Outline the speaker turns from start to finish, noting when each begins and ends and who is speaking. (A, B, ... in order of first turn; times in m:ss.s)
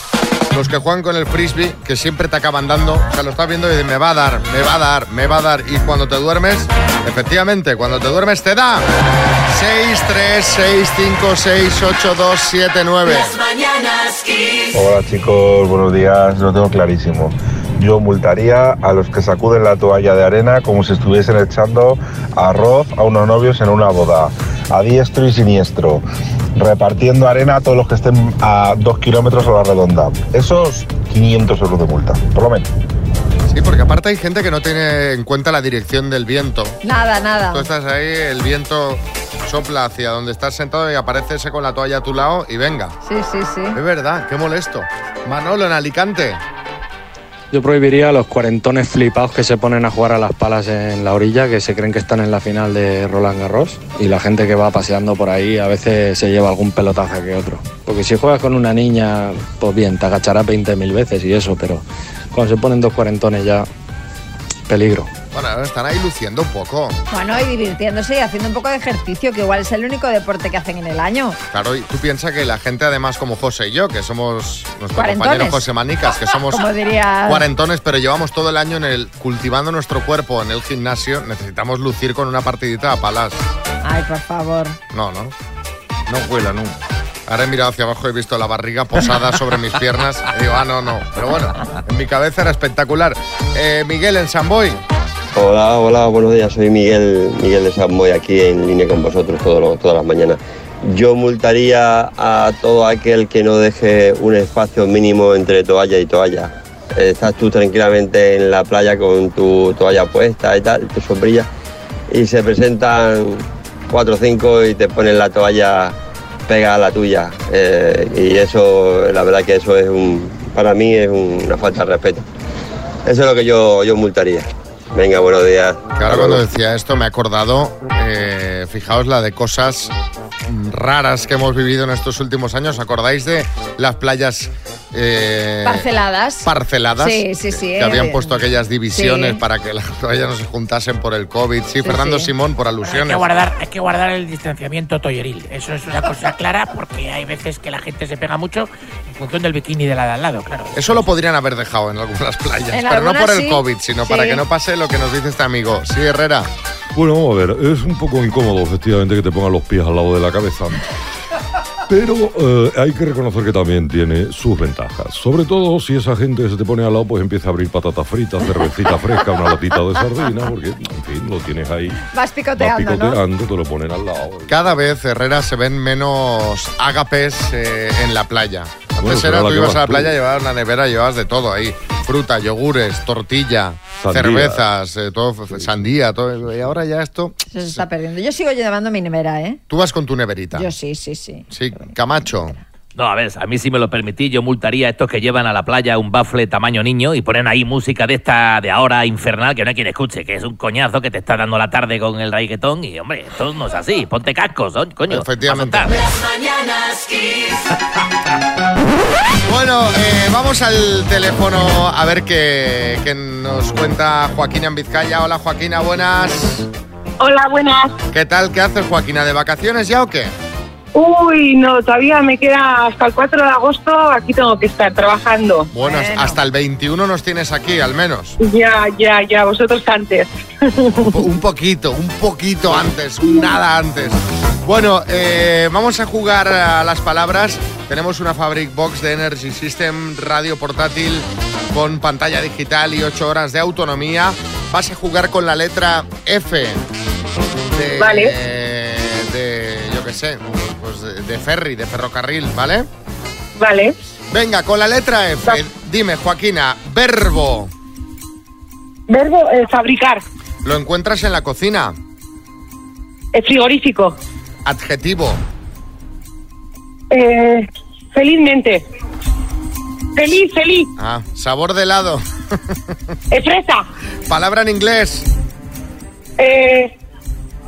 0:00.5-0:08.9 A
0:09.5-0:13.4 A
0:14.7-0:26.0 B
0:26.6-0:32.7 B
0:33.5-0:36.8 A
0:36.8-0:37.7 C
0:37.5-0:43.0 A
0:43.0-0:43.8 C
0:43.7-0:46.4 A
0:47.5-1:03.7 D
1:04.7-1:05.1 D
1:05.3-1:07.0 A
1:07.1-1:11.4 C
1:11.5-1:16.7 A
1:15.0-1:15.6 C
1:16.5-1:17.4 C
1:17.2-1:23.5 A
1:23.8-1:24.8 C
1:24.9-1:25.3 A
1:27.3-1:34.8 A
1:35.4-1:51.5 E
1:52.1-1:56.0 E
1:56.5-2:02.2 E
2:03.1-2:06.4 E
2:06.0-2:09.9 A
2:10.5-2:15.9 A
2:15.6-2:18.3 C
2:16.4-2:23.3 A
2:18.9-2:19.4 C
2:21.8-2:22.3 C
2:22.9-2:23.9 F
2:26.0-2:27.0 F
2:30.7-2:36.5 A
2:32.7-2:34.4 C
2:36.9-2:40.8 G
2:41.9-2:52.0 G
2:52.1-2:53.2 C
2:52.6-2:54.8 G
2:54.5-3:07.8 A
2:59.0-3:00.1 G
3:04.0-3:04.6 G
3:05.5-3:05.8 G
3:07.5-3:09.6 C
3:09.7-3:10.7 A
3:10.5-3:11.5 C
3:11.5-3:12.6 A
3:13.0-3:26.0 H
3:25.1-3:26.0 A
3:29.4-3:36.7 A
3:37.2-3:37.9 I
3:38.1-3:40.3 A
3:40.9-3:45.7 I
3:45.7-3:48.4 A
3:45.8-3:46.4 C
3:48.4-3:51.0 I
3:50.9-4:06.8 A
4:07.7-4:12.9 A
4:08.0-4:08.3 I
4:13.6-4:13.9 I
4:14.3-4:17.7 A
4:19.1-4:20.2 I
4:20.6-4:22.0 A
4:23.3-4:24.2 I
4:24.6-4:25.4 A
4:27.1-4:28.8 I
4:30.2-4:30.9 I
4:31.0-4:32.8 A
4:33.3-4:33.8 I
4:34.3-4:35.3 A
4:36.4-4:36.9 I